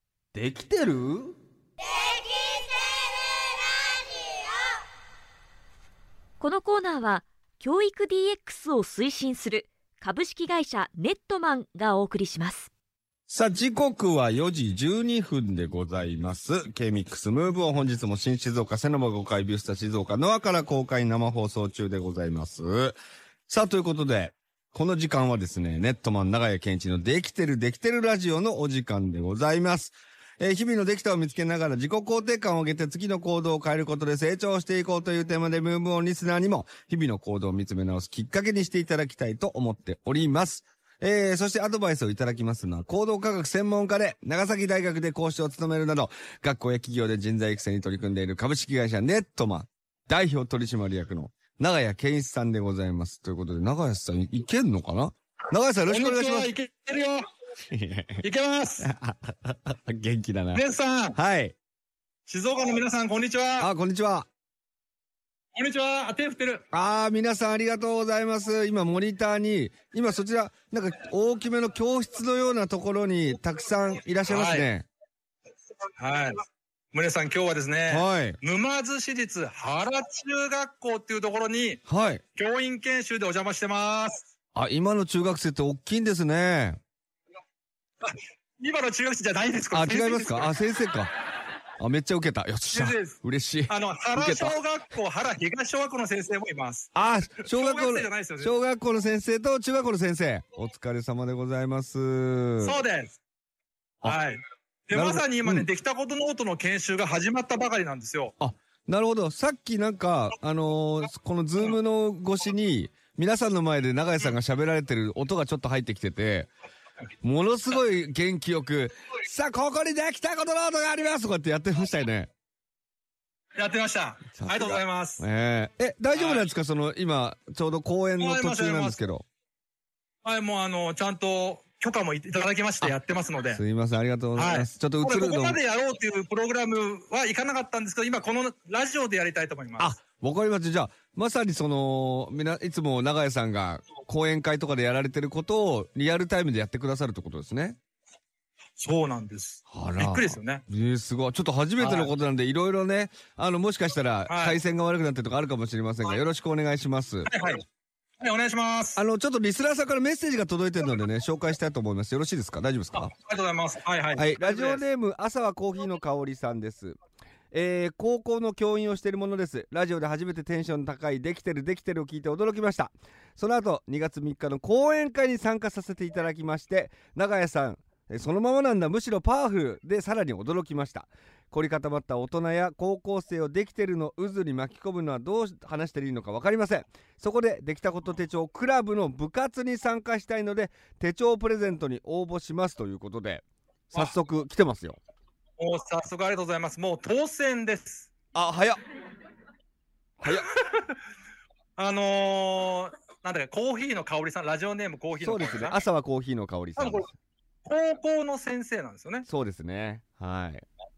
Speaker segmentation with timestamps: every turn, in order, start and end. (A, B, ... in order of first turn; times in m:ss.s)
0:00.3-0:01.3 A
0:06.4-0:12.7 B
0:13.3-0:56.5 A
0:55.9-0:57.2 C
0:57.7-0:58.2 A
0:58.2-0:58.9 C
0:58.8-1:00.6 A
1:00.5-1:01.2 C
1:01.1-1:01.5 A
1:02.3-1:03.7 C
1:03.6-1:04.3 A
1:05.5-1:06.6 C
1:06.7-1:14.8 A
1:14.3-1:14.7 C
1:16.0-1:16.4 C
1:16.9-1:21.8 C
1:17.9-1:18.4 A
1:21.9-1:22.2 A
1:22.3-1:24.2 C
1:24.5-1:26.8 A
1:28.0-1:30.5 C
1:29.7-1:31.1 A
1:31.8-1:34.5 A
1:32.7-1:36.9 C
1:36.9-1:42.8 A
1:37.4-1:38.6 C
1:42.6-1:43.2 C
1:44.0-1:48.3 C
1:44.9-1:45.7 A
1:48.4-1:56.5 A
1:57.2-2:02.3 A
2:03.6-2:05.2 C
2:04.4-2:09.2 A
2:06.1-2:06.5 C
2:08.2-2:09.0 C
2:10.2-2:13.6 C
2:13.5-2:15.6 A
2:14.3-2:20.0 C
2:19.8-2:27.8 A
2:28.8-2:30.6 C
2:29.7-2:37.3 A
2:31.8-2:32.1 C
2:34.3-2:34.6 C
2:37.2-2:37.6 C
2:38.2-2:39.0 C
2:39.0-2:43.1 A
2:42.9-2:44.8 C
2:44.2-2:47.0 A
2:47.5-3:15.0 A
3:15.6-3:18.1 C
3:18.3-3:18.8 A
3:20.2-3:20.5 A
3:21.8-3:25.8 C
3:25.2-3:27.1 A
3:26.8-3:27.1 C
3:27.6-3:29.3 C
3:29.2-3:30.6 A